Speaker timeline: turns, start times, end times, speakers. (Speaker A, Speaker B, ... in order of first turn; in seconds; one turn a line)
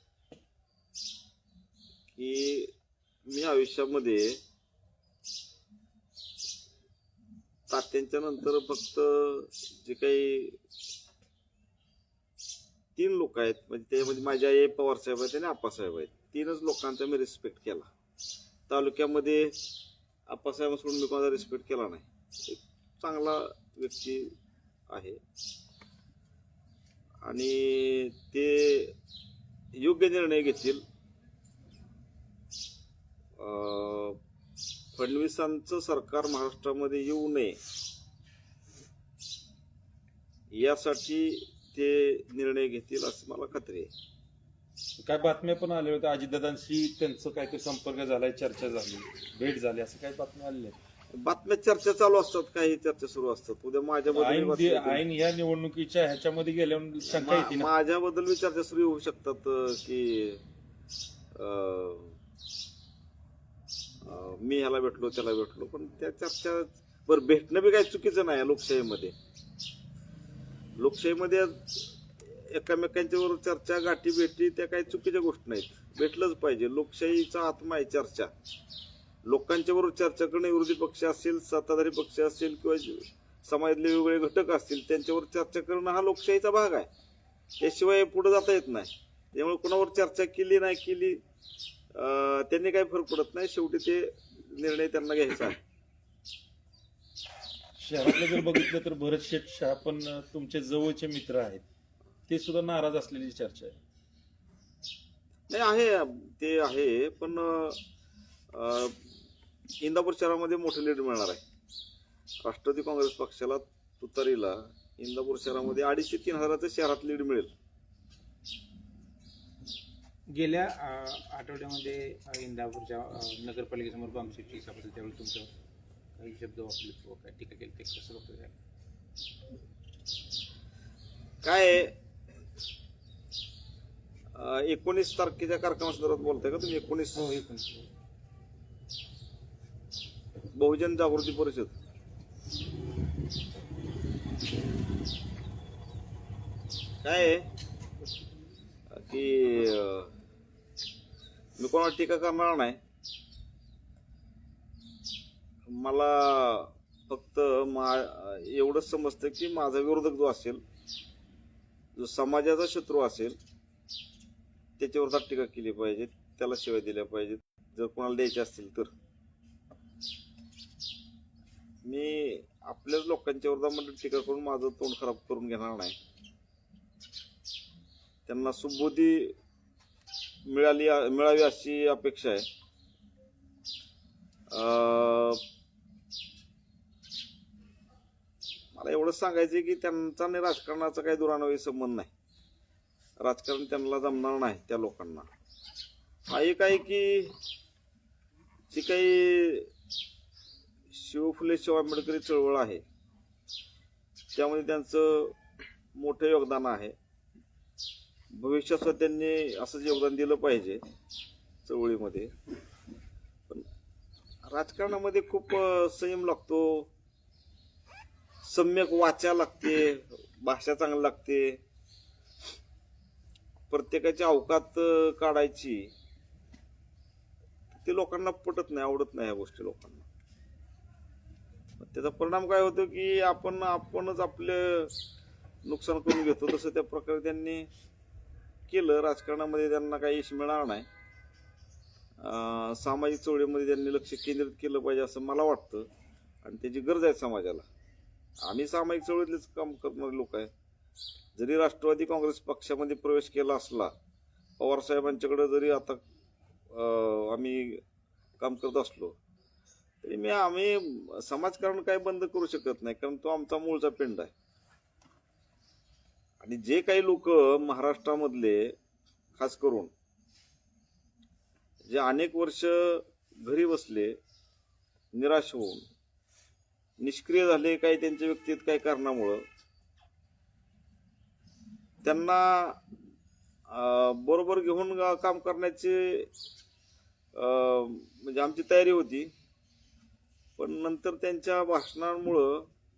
Speaker A: 2.2-2.7
Speaker A: 3.3-4.4
Speaker A: 7.7-10.6
Speaker A: 13.0-17.9
Speaker A: 18.7-19.6
Speaker A: 20.3-24.3
Speaker A: 24.9-25.2
Speaker A: 27.2-29.0
Speaker A: 29.8-30.8
Speaker A: 33.4-34.2
Speaker A: 35.0-37.6
Speaker A: 40.5-43.9
Speaker B: 45.0-50.8
Speaker A: 51.2-55.0
Speaker B: 54.1-57.7
Speaker A: 57.1-60.4
Speaker A: 61.4-62.2
Speaker A: 64.0-69.1
Speaker A: 70.8-78.3
Speaker A: 79.2-86.9
Speaker A: 87.6-91.2
Speaker A: 92.0-95.6
Speaker B: 97.8-101.6
Speaker B: 102.3-103.8
Speaker A: 105.5-107.8
Speaker A: 108.5-109.0
Speaker A: 109.8-111.4
Speaker A: 112.4-117.5
Speaker C: 120.3-125.5
Speaker C: 126.2-128.6
Speaker A: 131.4-132.0
Speaker A: 134.3-137.3
Speaker C: 137.2-137.9
Speaker A: 140.6-141.7
Speaker A: 147.0-147.5
Speaker A: 148.9-150.1
Speaker A: 151.6-152.8
Speaker A: 155.7-160.6
Speaker A: 161.9-163.4
Speaker A: 164.8-168.9
Speaker A: 171.8-176.0
Speaker A: 178.3-179.4
Speaker A: 180.5-182.5
Speaker A: 184.5-185.4
Speaker A: 188.8-192.1
Speaker A: 193.2-195.3
Speaker A: 196.3-197.4
Speaker A: 198.7-199.7
Speaker A: 200.9-202.8
Speaker A: 204.3-205.4
Speaker A: 206.0-207.0
Speaker A: 208.3-210.8
Speaker A: 211.7-212.3
Speaker A: 214.5-216.9
Speaker A: 218.4-221.6
Speaker A: 223.7-225.9
Speaker A: 227.8-230.1
Speaker A: 231.8-234.9
Speaker A: 235.7-237.7
Speaker A: 238.7-240.9
Speaker A: 242.2-245.9
Speaker A: 246.4-247.7
Speaker A: 248.4-250.5
Speaker A: 251.4-253.9
Speaker A: 254.6-256.0
Speaker A: 256.7-257.8
Speaker A: 258.4-259.1
Speaker A: 260.0-264.3
Speaker A: 266.4-268.8
Speaker A: 269.4-269.9
Speaker A: 271.8-274.2
Speaker A: 275.1-275.8
Speaker A: 277.0-279.4
Speaker A: 282.0-282.8
Speaker A: 283.7-286.3
Speaker A: 287.4-289.3
Speaker A: 290.6-292.7